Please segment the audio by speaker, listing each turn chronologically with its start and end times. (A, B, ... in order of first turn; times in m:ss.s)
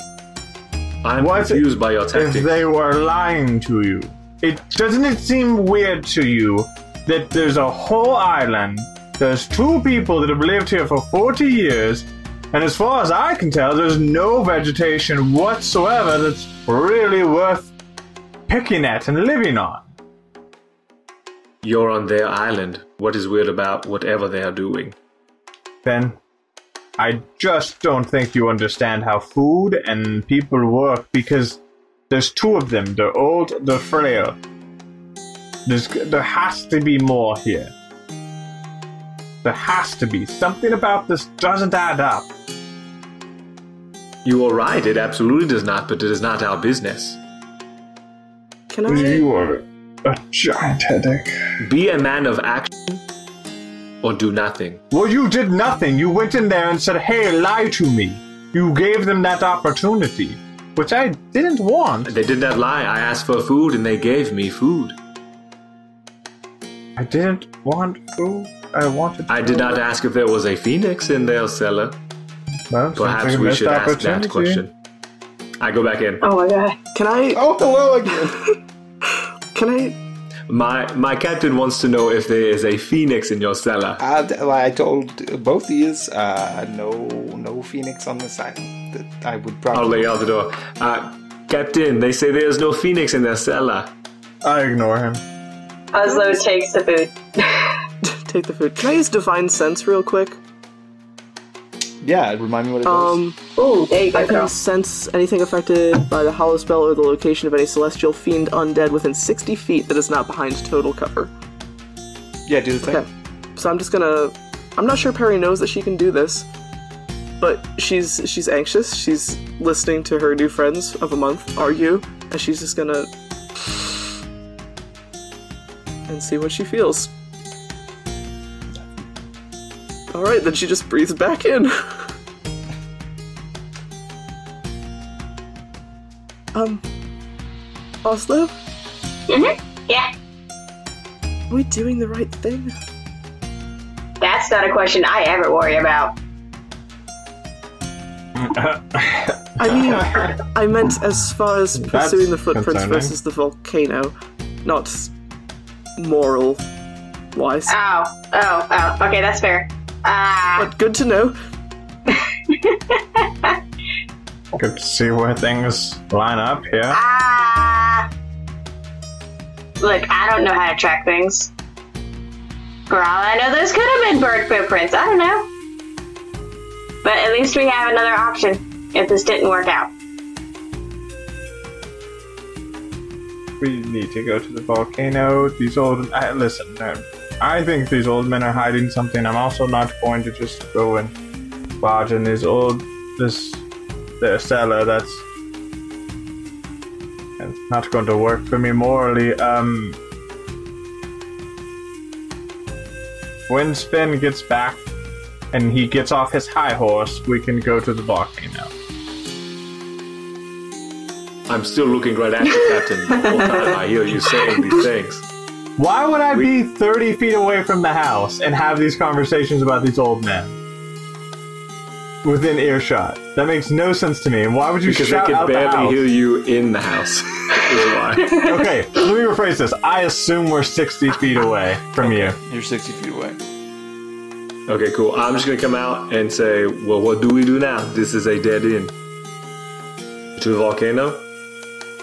0:01.0-0:02.7 A
0:01.2-0:17.7 B
0:18.5-0:19.9 B
0:21.6-0:25.0 A
0:25.8-0:26.2 B
0:27.0-0:34.4 B
0:35.7-0:37.7 B
0:39.4-0:42.3 B
0:44.2-0:47.2 A
0:48.7-0:49.3 C
0:48.9-0:51.4 B
0:51.6-0:53.0 A
0:54.0-0:54.8 A
0:54.9-1:02.1 B
1:02.1-1:05.0 A
1:07.0-1:09.8 B
1:09.3-1:12.0 A
1:12.7-1:14.6 B
1:13.0-1:14.7 A
1:15.6-1:16.2 A
1:16.2-1:16.8 D
1:17.0-1:17.4 C
1:17.3-1:18.4 E
1:19.0-1:20.0 C
1:20.5-1:24.0 A
1:24.0-1:30.2 E
1:29.7-1:33.9 A
1:34.4-1:35.2 B
1:35.9-1:37.7 D
1:36.0-1:36.4 C
1:38.0-1:40.4 C
1:42.0-1:43.2 E
1:42.8-1:43.4 C
1:43.6-1:44.5 D
1:44.1-1:51.3 C
1:52.5-1:53.0 E
1:52.8-1:56.5 C
1:57.4-2:04.1 C
2:06.1-2:07.1 C
2:10.1-2:12.1 C
2:16.5-2:16.8 C
2:18.0-2:18.5 C
2:19.3-2:20.1 D
2:21.5-2:22.8 C
2:24.2-2:26.1 D
2:28.4-2:30.4 B
2:29.6-2:35.1 C
2:31.8-2:33.2 B
2:36.0-2:36.6 C
2:37.3-2:37.8 C
2:37.7-2:40.7 D
2:40.6-2:41.4 C
2:42.1-2:43.6 D
2:44.5-2:47.0 B
2:46.9-2:48.1 D
2:49.8-2:51.5 D
2:52.9-2:55.5 D
2:57.0-2:59.9 D
3:03.6-3:11.2 B
3:11.8-3:13.6 B
3:14.2-3:15.2 B
3:17.4-3:20.0 B
3:23.5-3:24.8 B
3:25.5-3:28.7 B
3:31.5-3:35.2 A
3:32.6-3:34.5 D
3:35.8-3:40.6 B
3:42.2-3:46.0 B
3:44.8-3:48.4 A
3:48.3-3:52.4 B
3:52.0-3:53.4 E
3:54.7-3:58.9 A
4:00.4-4:01.2 A